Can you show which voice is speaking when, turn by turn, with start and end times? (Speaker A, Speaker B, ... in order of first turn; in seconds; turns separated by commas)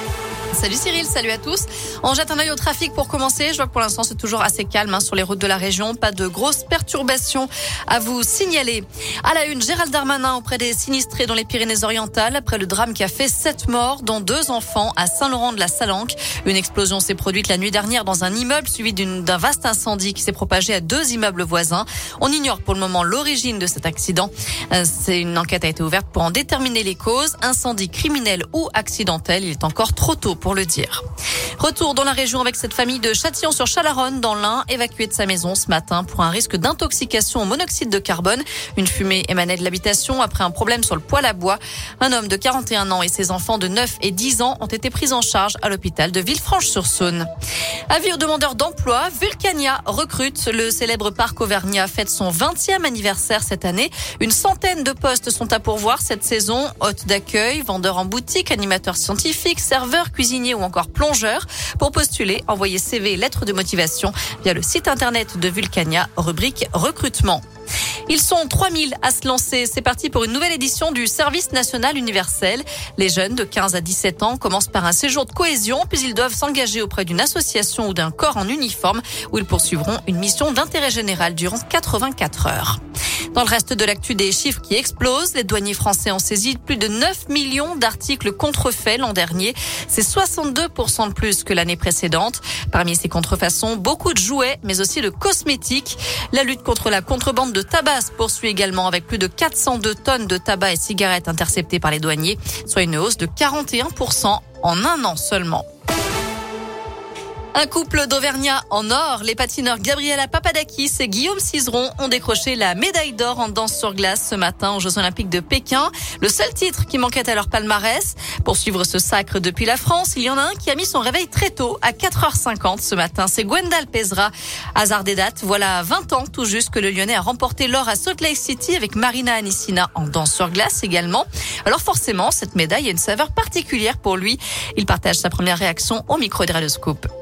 Speaker A: 0.5-31.0, Speaker A: 31.6-47.3, Speaker A: 47.9-67.4, Speaker A: 68.1-82.8, Speaker A: 83.3-105.6, Speaker A: 107.5-137.1